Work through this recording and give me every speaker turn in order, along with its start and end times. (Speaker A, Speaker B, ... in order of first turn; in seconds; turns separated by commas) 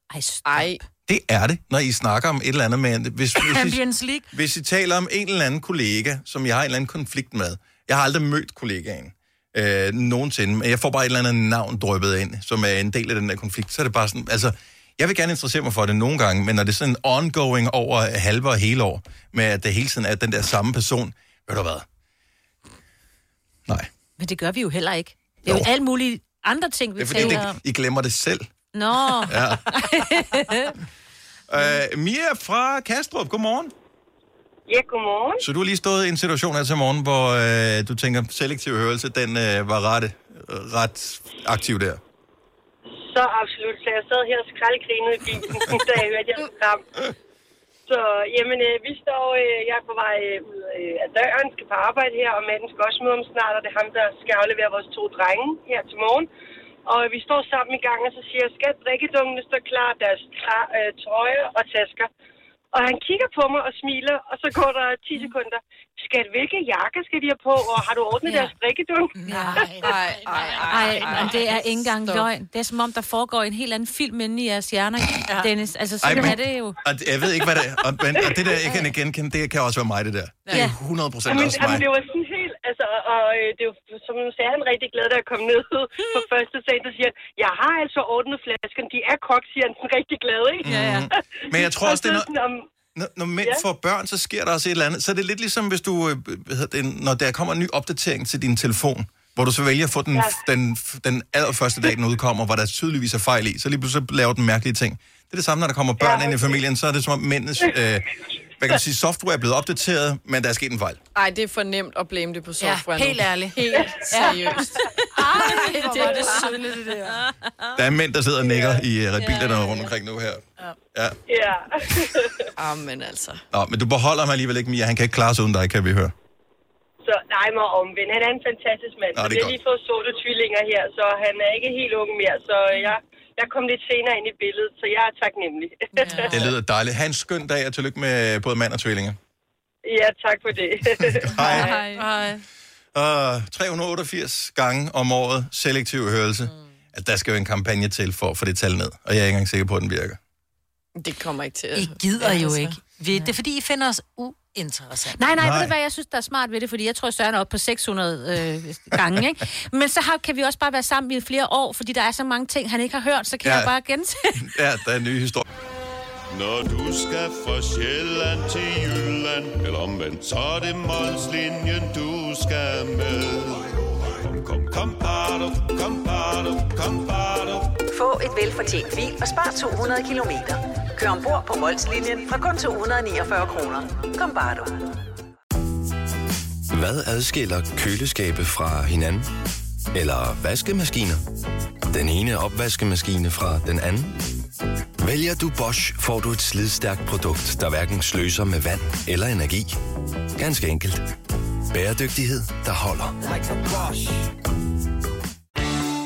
Speaker A: 0.1-0.8, Speaker B: 0.5-0.8, Speaker C: 1.1-3.8, Speaker D: 3.4-4.3, Speaker C: 4.3-21.9, Speaker A: 24.2-27.6, Speaker C: 27.0-28.5, Speaker A: 28.7-30.8, Speaker C: 29.3-29.6, Speaker C: 31.5-33.7, Speaker E: 34.7-35.4, Speaker C: 35.4-42.0, Speaker E: 43.0-46.8, Speaker E: 47.9-56.3, Speaker E: 56.9-62.1, Speaker E: 62.7-69.7, Speaker D: 69.2-71.5, Speaker A: 69.3-69.6, Speaker B: 69.8-72.3, Speaker A: 70.7-76.8, Speaker C: 76.0-81.9, Speaker E: 81.3-92.7, Speaker C: 90.6-92.3, Speaker A: 90.7-91.1, Speaker C: 93.0-111.0, Speaker E: 106.0-106.6, Speaker B: 111.2-116.7, Speaker D: 112.6-114.6, Speaker D: 115.1-117.2, Speaker A: 115.2-117.8, Speaker C: 117.8-121.2, Speaker E: 118.4-118.8, Speaker A: 119.2-119.9, Speaker E: 121.3-122.5, Speaker B: 122.6-123.4, Speaker C: 123.5-126.1, Speaker E: 127.0-136.3, Speaker C: 129.1-129.6, Speaker D: 136.0-136.4, Speaker B: 136.1-136.3, Speaker C: 136.3-139.2, Speaker E: 139.8-141.7, Speaker C: 140.9-141.7, Speaker B: 141.4-142.1, Speaker D: 141.6-142.4, Speaker C: 142.9-150.2, Speaker B: 151.0-152.8, Speaker D: 151.8-155.3, Speaker A: 155.2-164.4, Speaker C: 155.4-155.7, Speaker C: 163.4-163.7, Speaker C: 164.3-165.4, Speaker F: 166.3-177.8, Speaker G: 177.9-184.8, Speaker H: 186.7-189.3, Speaker H: 189.9-191.2, Speaker H: 191.9-194.2, Speaker H: 195.0-199.8, Speaker H: 200.4-201.1, Speaker H: 201.7-203.2